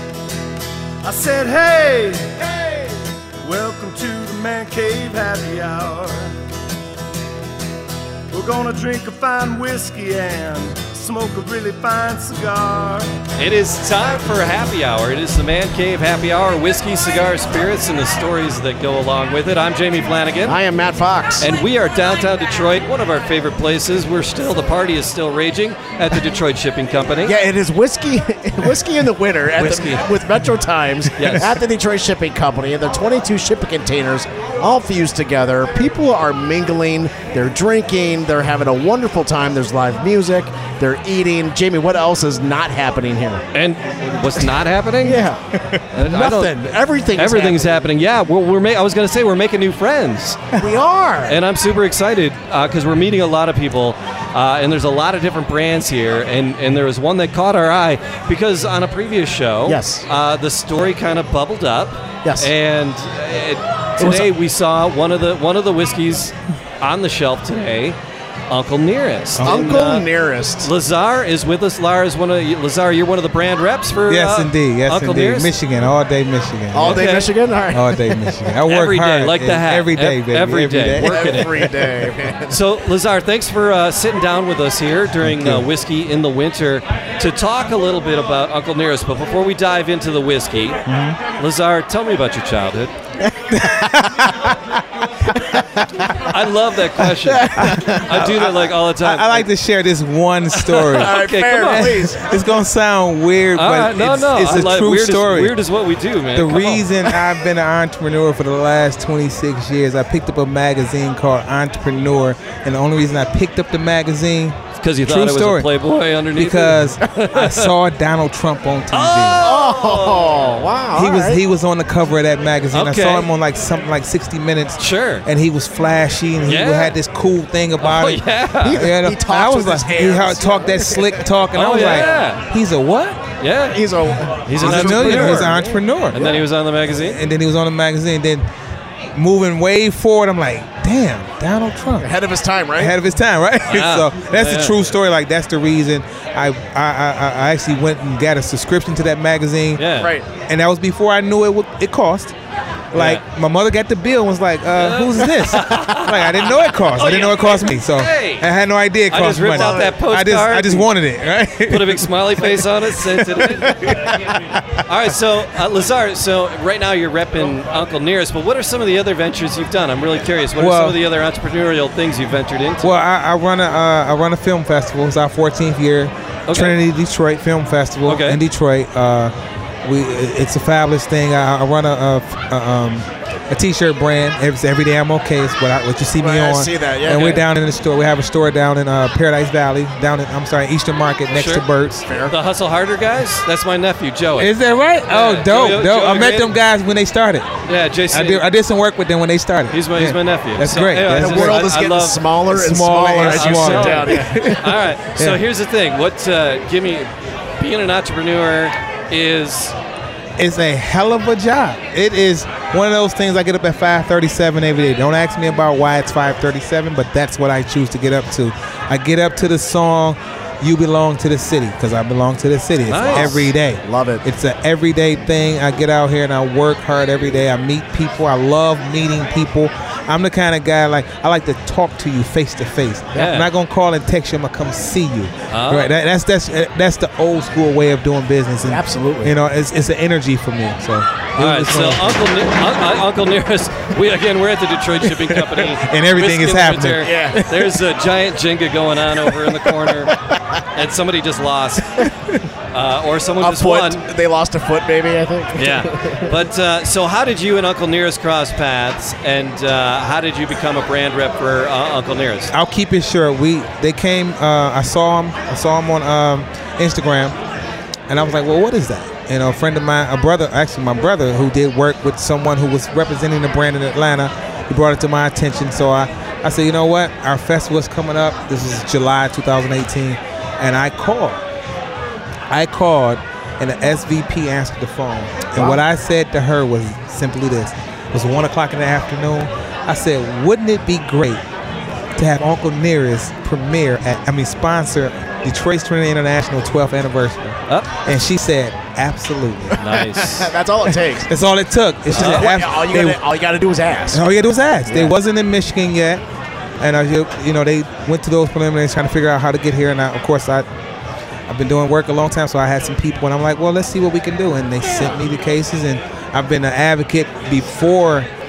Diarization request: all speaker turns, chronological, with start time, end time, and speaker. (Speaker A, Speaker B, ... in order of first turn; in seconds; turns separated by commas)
Speaker A: 1.0-6.4, Speaker A: 8.3-13.1, Speaker B: 13.4-20.6, Speaker C: 20.4-21.5, Speaker B: 21.4-27.4, Speaker C: 27.2-43.5, Speaker B: 29.6-30.1, Speaker B: 31.2-31.6, Speaker B: 43.5-45.2, Speaker C: 45.0-47.9, Speaker B: 45.9-50.4, Speaker C: 50.5-51.4, Speaker B: 51.3-68.0, Speaker C: 59.6-60.0, Speaker C: 62.2-62.5, Speaker C: 64.0-64.3, Speaker B: 68.5-70.1, Speaker D: 69.3-69.8, Speaker C: 69.4-70.7, Speaker B: 70.6-75.5, Speaker D: 74.1-77.1, Speaker C: 76.7-78.4, Speaker B: 76.8-77.3, Speaker D: 77.7-81.7, Speaker B: 78.7-81.7, Speaker C: 81.0-82.6, Speaker B: 82.5-90.8, Speaker D: 85.2-85.7, Speaker D: 90.8-91.2, Speaker B: 91.4-92.9, Speaker C: 93.3-94.6, Speaker D: 93.5-96.1, Speaker C: 95.3-95.6, Speaker B: 96.2-99.5, Speaker C: 97.3-98.1, Speaker D: 97.5-105.6, Speaker B: 100.5-102.0, Speaker C: 100.9-102.3, Speaker B: 103.6-107.2, Speaker D: 106.3-115.7, Speaker B: 114.8-117.7, Speaker D: 116.3-119.4, Speaker B: 118.9-120.6, Speaker C: 119.4-121.4, Speaker D: 121.0-133.2, Speaker B: 122.7-123.3, Speaker B: 124.8-125.2, Speaker B: 126.5-127.0, Speaker B: 127.8-128.8, Speaker C: 128.6-131.2, Speaker B: 131.5-132.4, Speaker B: 133.4-135.6, Speaker C: 133.7-136.4, Speaker D: 134.6-136.3, Speaker B: 136.1-137.2, Speaker D: 136.9-138.5, Speaker D: 139.1-142.1, Speaker C: 142.0-142.9, Speaker D: 142.8-152.4, Speaker B: 143.7-144.8, Speaker B: 149.8-150.1, Speaker C: 150.0-150.3, Speaker B: 152.9-153.2, Speaker D: 152.9-164.8, Speaker B: 154.8-158.5, Speaker B: 159.1-160.9, Speaker C: 159.4-159.9, Speaker B: 161.7-163.8, Speaker B: 164.8-172.9, Speaker D: 170.6-171.0, Speaker D: 172.8-179.3, Speaker B: 176.5-176.8, Speaker B: 178.1-178.4, Speaker D: 179.8-192.1, Speaker C: 186.2-187.4, Speaker B: 191.3-191.7, Speaker C: 192.1-192.3, Speaker B: 192.3-194.5, Speaker D: 194.4-197.5, Speaker B: 195.1-196.6, Speaker B: 197.7-198.4, Speaker D: 198.1-201.7, Speaker B: 199.7-202.2, Speaker C: 201.0-204.5, Speaker D: 202.5-205.4, Speaker B: 203.2-209.8, Speaker D: 210.4-242.2, Speaker B: 222.9-223.4, Speaker C: 223.0-224.2, Speaker B: 233.2-233.5, Speaker B: 235.5-235.9, Speaker C: 238.7-239.3, Speaker B: 241.4-250.1, Speaker D: 245.0-247.8, Speaker C: 247.0-247.4, Speaker B: 250.7-252.1, Speaker D: 252.0-252.4, Speaker B: 252.7-254.1, Speaker C: 253.4-256.3, Speaker B: 255.6-262.5, Speaker D: 262.5-267.4, Speaker D: 268.1-281.4, Speaker D: 282.5-291.4, Speaker C: 285.5-285.8, Speaker D: 292.1-299.8, Speaker B: 297.7-297.9, Speaker C: 299.7-301.3, Speaker B: 299.8-300.5, Speaker D: 300.9-303.2, Speaker C: 302.1-304.2, Speaker B: 302.1-302.5, Speaker D: 304.1-306.2, Speaker C: 304.9-305.1, Speaker D: 306.8-310.6, Speaker D: 311.5-318.3